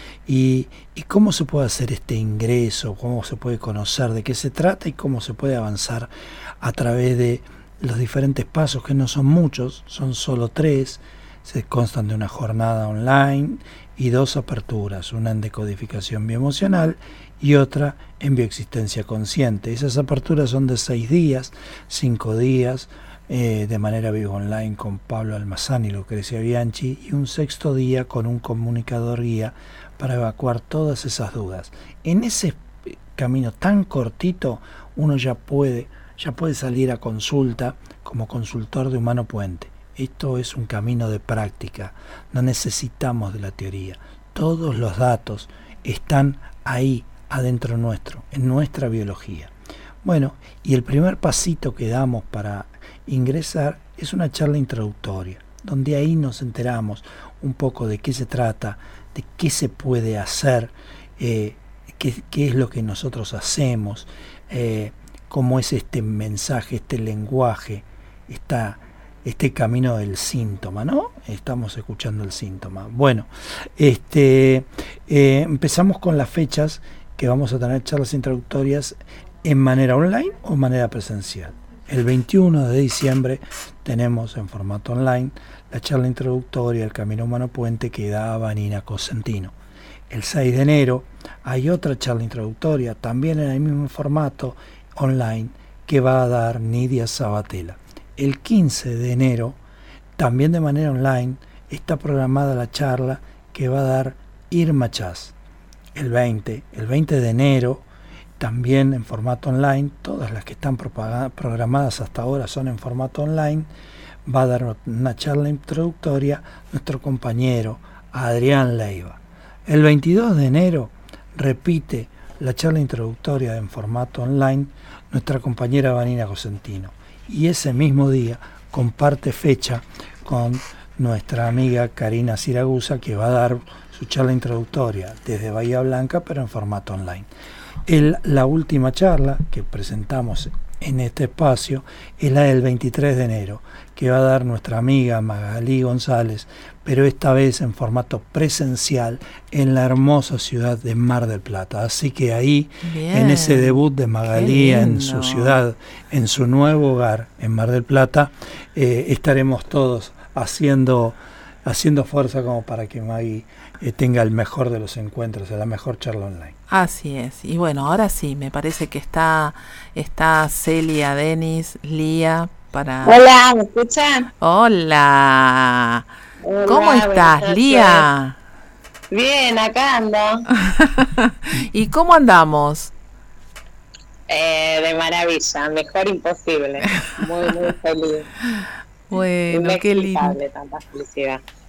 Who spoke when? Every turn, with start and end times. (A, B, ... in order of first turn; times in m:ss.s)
0:00.2-0:49.5 A
0:50.0-1:29.5 A
1:30.1-1:39.6 A
1:40.2-1:45.3 A
1:45.9-1:47.8 A
1:48.4-1:53.7 A
1:54.2-2:17.3 A
2:17.8-2:46.5 A
2:32.8-2:35.6 B
2:46.7-2:53.2 B
2:53.0-2:54.3 C
2:54.4-2:56.0 B
2:56.4-2:58.1 C
2:56.6-2:58.4 B
2:59.1-3:00.5 C
3:00.6-3:02.9 B
3:04.3-3:08.3 C
3:08.6-3:10.4 B
3:09.5-3:11.4 C